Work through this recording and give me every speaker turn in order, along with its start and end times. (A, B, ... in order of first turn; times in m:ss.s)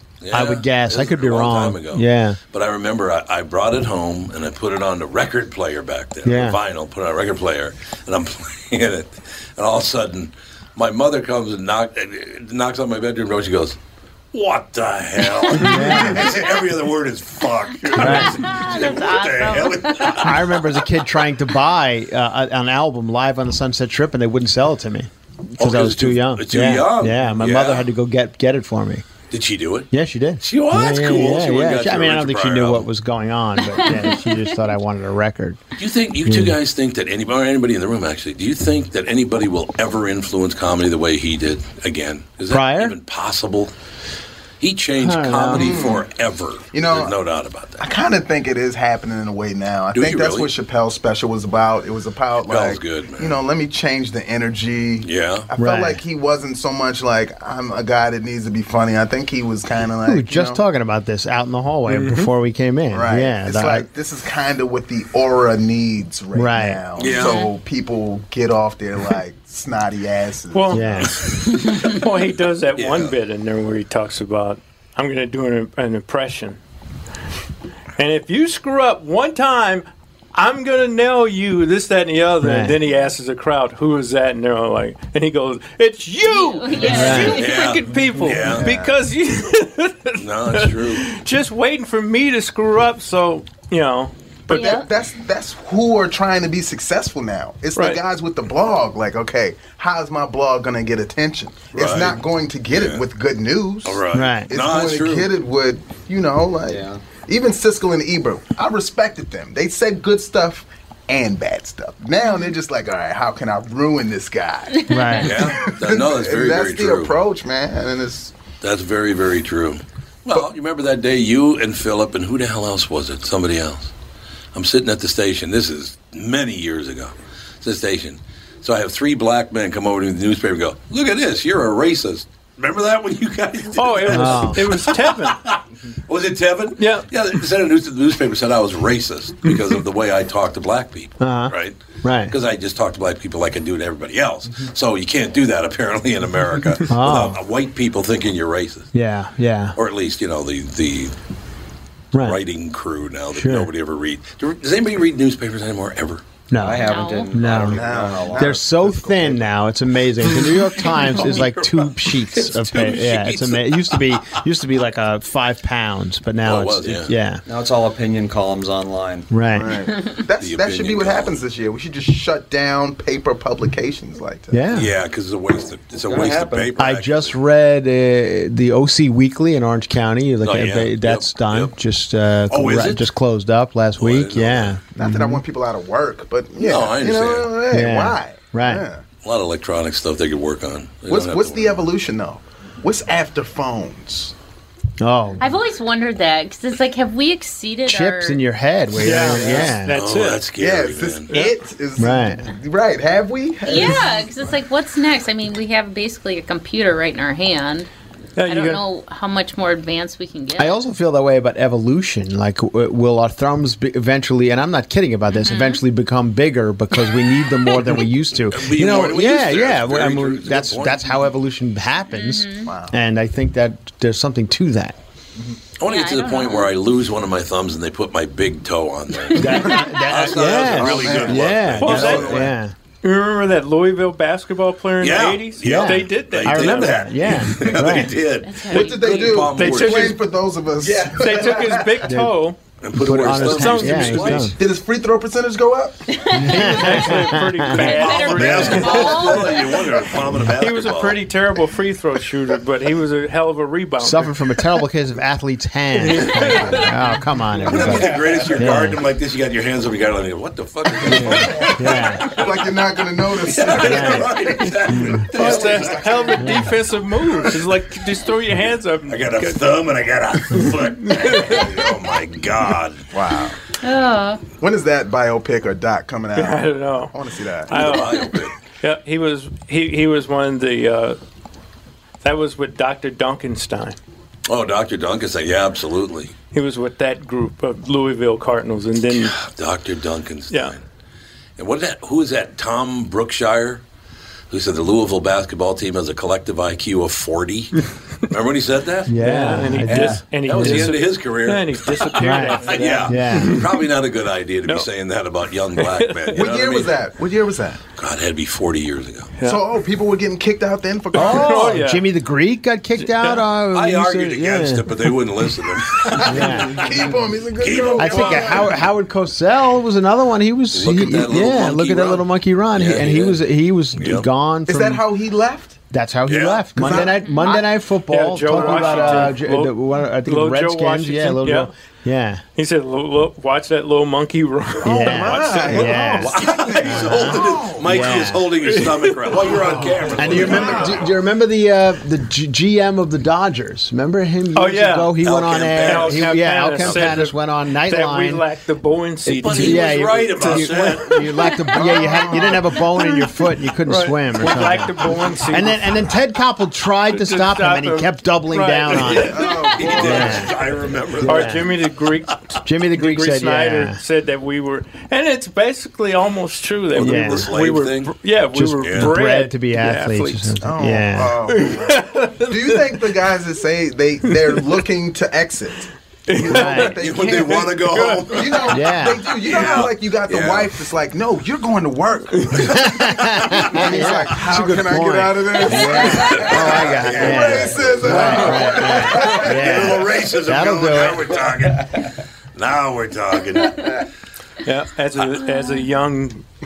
0:00.2-0:13.8 A
0:00.3-0:02.4 B
0:06.2-0:06.6 B
0:14.3-0:20.7 A
0:15.6-0:16.3 B
0:18.0-0:18.4 B
0:18.4-0:20.2 C
0:20.2-0:29.1 B
0:25.6-0:27.9 A
0:29.3-0:29.9 A
0:29.9-0:35.6 B
0:30.4-0:32.9 A
0:33.7-0:34.2 C
0:35.8-0:43.7 A
0:36.2-0:36.6 B
0:42.5-0:43.0 B
0:44.6-0:47.8 A
0:45.0-0:45.9 B
0:45.5-0:46.0 D
0:46.7-0:47.2 D
0:47.8-1:00.6 D
0:49.9-0:50.5 A
0:52.5-0:53.4 A
0:55.0-0:55.5 A
0:55.6-0:56.0 B
1:00.0-1:03.9 B
1:02.9-1:11.1 D
1:06.3-1:06.8 B
1:07.0-1:07.4 A
1:10.5-1:10.9 E
1:10.7-1:11.2 B
1:11.5-1:16.6 E
1:12.8-1:13.2 A
1:18.0-1:34.8 E
1:22.4-1:22.8 B
1:26.2-1:27.8 C
1:26.8-1:27.4 B
1:27.3-1:28.7 A
1:30.2-1:31.0 A
1:34.5-1:58.3 D
1:34.5-1:34.9 C
1:37.8-1:38.0 E
1:41.7-1:43.0 A
1:43.8-1:45.3 A
1:44.1-1:44.5 B
1:46.7-1:47.0 F
1:54.8-1:55.3 C
1:54.9-1:55.5 B
1:55.2-1:57.2 A
1:58.6-2:03.9 A
2:04.5-2:28.9 A
2:13.8-2:15.4 E
2:14.1-2:14.7 B
2:16.8-2:17.1 E
2:21.2-2:22.4 B
2:26.9-2:27.4 B
2:28.9-2:29.8 B
2:29.8-2:31.2 A
2:32.1-2:32.4 B
2:32.2-2:36.2 A
2:33.3-2:33.7 B
2:36.5-2:47.4 B
2:36.5-2:38.6 F
2:36.8-2:37.3 C
2:37.6-2:39.4 D
2:40.9-2:44.4 A
2:46.4-2:47.1 A
2:47.5-2:49.3 F
2:49.3-2:49.8 B
2:49.6-2:54.6 D
2:50.4-2:51.4 A
2:54.5-2:54.9 B
2:54.7-2:57.3 A
2:56.1-2:56.8 F
2:56.8-3:05.4 B
3:00.4-3:01.7 A
3:02.5-3:03.1 A
3:04.0-3:04.8 A
3:05.0-3:09.0 D
3:06.6-3:07.5 A
3:07.7-3:08.9 B
3:09.2-3:11.9 A
3:11.1-3:14.3 D
3:15.0-3:15.5 B
3:15.4-3:18.4 C
3:17.9-3:20.0 B
3:19.0-3:20.4 E
3:19.9-3:21.3 A
3:20.6-3:24.3 D
3:21.3-3:21.6 E
3:22.0-3:22.5 B
3:23.6-3:27.9 C
3:28.4-3:28.8 E
3:28.5-3:30.8 C
3:30.6-3:45.0 B
3:35.3-3:35.8 C
3:38.5-3:41.2 A
3:42.1-3:42.7 C
3:42.7-3:42.9 D
3:45.8-3:52.5 A
3:45.8-3:46.7 C
3:49.2-3:49.8 C
3:49.3-3:52.7 B
3:50.4-3:52.5 D
3:51.8-3:52.4 E
3:53.0-3:57.1 E
3:55.0-4:00.2 A
3:55.6-3:58.2 B
3:58.4-3:59.3 C
3:58.7-4:02.1 D
3:59.2-4:00.2 E
4:01.2-4:02.6 E
4:02.0-4:02.4 B
4:02.8-4:04.5 A
4:03.0-4:04.6 B
4:03.2-4:04.5 E
4:04.6-4:06.0 D
4:06.1-4:06.4 C
4:06.3-4:08.9 B
4:06.4-4:09.5 E
4:07.8-4:11.3 A
4:07.9-4:10.2 C
4:10.5-4:14.4 E
4:14.0-4:19.0 B
4:16.0-4:18.2 E
4:17.6-4:21.8 A
4:21.0-4:22.3 B
4:21.2-4:21.7 E
4:22.3-4:24.5 D
4:23.4-4:26.3 A
4:23.8-4:24.3 B
4:24.9-4:25.3 B
4:25.3-4:29.7 E
4:25.4-4:26.7 D
4:26.4-4:26.7 B
4:29.1-4:33.1 A
4:30.5-4:31.9 E
4:33.1-4:33.6 D
4:33.8-4:34.4 C
4:34.6-4:38.0 D
4:36.4-4:37.2 E
4:37.7-4:41.2 E
4:37.7-4:38.6 A
4:42.2-4:44.0 E
4:44.5-4:46.3 A
4:46.5-4:49.4 E
4:49.2-4:50.8 A
4:50.5-4:50.8 E
4:51.6-4:53.8 A
4:54.5-4:57.8 A
4:58.3-5:07.0 A
4:59.1-5:00.9 B
4:59.2-5:03.9 E
5:02.2-5:03.6 B
5:05.8-5:06.4 E
5:06.4-5:07.8 D
5:08.0-5:09.3 A
5:09.4-5:11.8 D
5:11.1-5:12.1 E
5:11.2-5:15.0 B
5:13.0-5:13.4 E
5:13.7-5:16.7 A
5:16.0-5:18.8 D
5:16.2-5:16.8 B
5:17.6-5:18.7 A
5:18.0-5:25.0 B
5:20.7-5:23.4 A
5:24.0-5:24.3 A
5:24.7-5:25.8 D
5:25.9-5:32.4 B
5:26.3-5:26.6 A
5:26.8-5:27.6 D
5:27.2-5:27.6 C
5:28.1-5:31.7 E
5:28.6-5:29.3 D
5:32.6-5:35.9 E
5:34.8-5:38.5 B
5:34.9-5:37.8 D
5:35.6-5:41.0 A
5:38.6-5:39.9 E
5:39.7-5:41.0 D
5:40.1-5:48.4 B
5:44.5-5:45.2 E
5:45.2-5:47.2 A
5:45.8-5:52.4 E
5:49.3-5:51.6 A
5:49.4-5:59.4 B
5:51.8-5:52.8 D
5:53.8-5:56.0 E
5:57.1-5:59.4 E
5:58.9-6:01.7 A
5:59.2-6:00.5 D
6:00.0-6:00.6 B
6:01.2-6:01.7 B
6:01.2-6:10.6 E
6:02.6-6:04.0 B
6:06.9-6:08.2 A
6:07.0-6:07.5 B
6:08.5-6:11.4 B
6:08.8-6:09.2 A
6:10.6-6:30.1 D
6:11.4-6:13.2 E
6:14.3-6:14.7 E
6:16.3-6:18.6 E
6:16.4-6:17.0 B
6:17.0-6:18.8 A
6:18.7-6:19.3 B
6:19.3-6:20.7 A
6:22.6-6:31.5 B
6:26.0-6:34.0 A
6:34.6-6:36.4 E